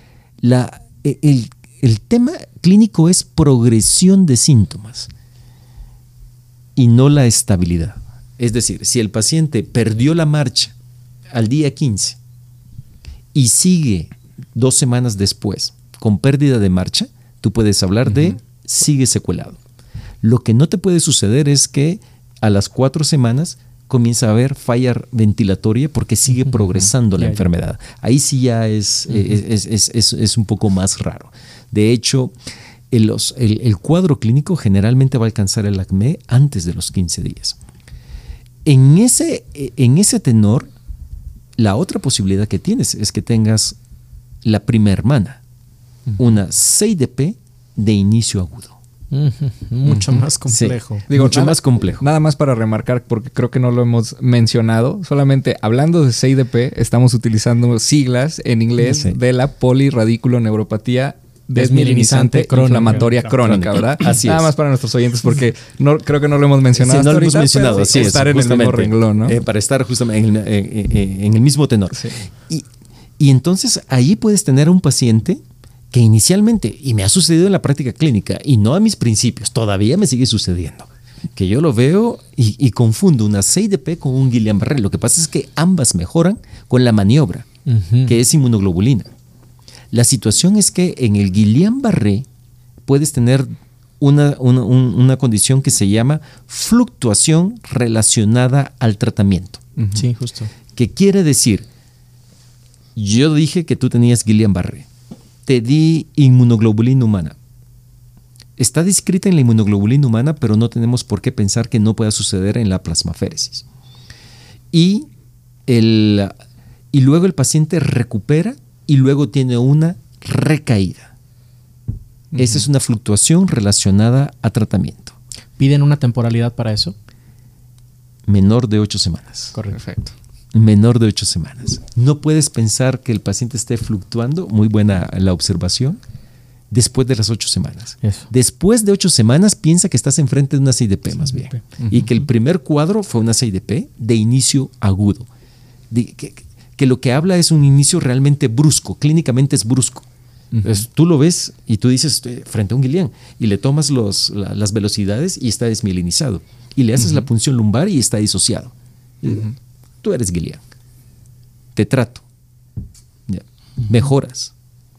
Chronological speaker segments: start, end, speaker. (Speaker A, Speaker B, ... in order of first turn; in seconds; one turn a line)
Speaker A: 0.4-5.1
Speaker A: 6.8-10.7
Speaker A: 11.3-12.2
Speaker A: 13.3-19.6
Speaker A: 20.2-32.3
Speaker A: 32.9-37.6
Speaker A: 38.6-40.7
Speaker A: 41.6-43.8
Speaker A: 44.4-45.4
Speaker A: 46.2-48.8
Speaker B: 49.1-51.0
Speaker C: 49.9-50.2
Speaker A: 50.5-52.0
Speaker C: 51.1-69.3
Speaker A: 58.8-59.2
Speaker B: 61.5-63.1
Speaker A: 63.4-64.5
Speaker A: 66.7-72.7
Speaker A: 73.2-87.5
Speaker B: 87.7-88.1
Speaker A: 88.0-89.1
Speaker A: 89.9-92.3
Speaker A: 92.8-99.6
Speaker C: 99.8-100.0
Speaker B: 99.9-100.5
Speaker A: 100.7-101.7
Speaker A: 103.0-104.9
Speaker A: 105.5-107.4
Speaker A: 108.6-113.6
Speaker A: 114.7-115.1
Speaker A: 115.7-116.3
Speaker A: 116.9-121.1
Speaker C: 122.3-122.7
Speaker A: 122.3-125.2
Speaker B: 125.6-126.9
Speaker A: 128.3-129.6
Speaker C: 129.7-130.1
Speaker A: 130.5-136.0
Speaker A: 136.7-145.3
Speaker A: 145.9-150.1
Speaker C: 150.5-150.8
Speaker A: 150.6-160.6
Speaker A: 161.7-162.2
Speaker A: 163.3-164.5